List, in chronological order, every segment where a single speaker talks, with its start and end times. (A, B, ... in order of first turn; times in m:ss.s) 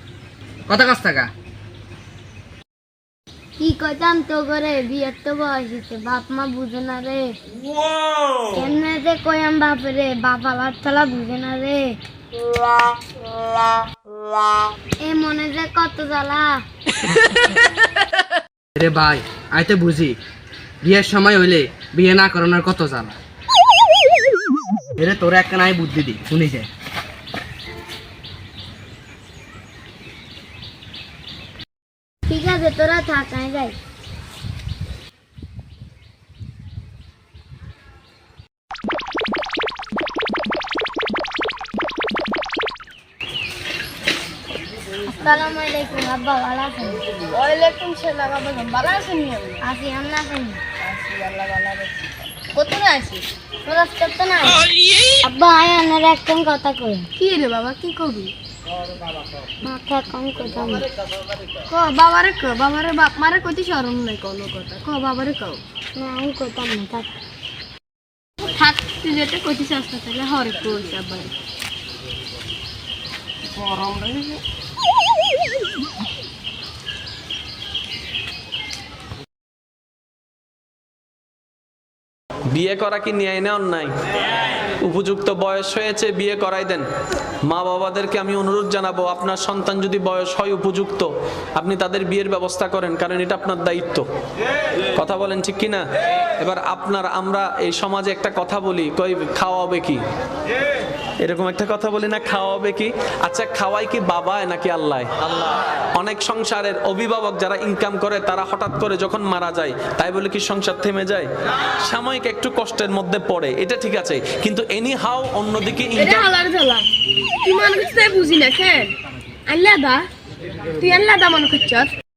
0:00.7-0:01.3 A
0:03.6-0:07.4 B
0:08.5-0:12.0 B
0:15.0-0:16.6 B
0:18.8-0:20.2 A
0:20.8-0:23.2 A
0:25.0-0:26.7 A
0:32.3-0:33.8 B
0:45.0-0:47.0 B
0:47.3-0:49.6 C
0:49.6-0:50.6 B
0:50.8-0:53.3 C
0:53.6-0:54.7 B
0:55.2-0:57.1 B
0:57.2-0:58.3 C
0:59.6-1:00.9 B
1:01.7-1:05.6 C
1:06.0-1:07.1 B
1:08.4-1:11.3 C
1:13.5-1:14.4 C
1:22.5-1:23.9 D
1:24.6-1:26.9 D
1:27.5-1:34.1 D
1:35.0-1:35.8 D
1:36.4-1:40.0 D
1:41.2-1:51.3 D
1:51.8-1:56.3 D
1:56.0-1:56.9 C
1:57.4-1:58.9 C
1:59.5-2:00.0 C
2:00.8-2:01.9 C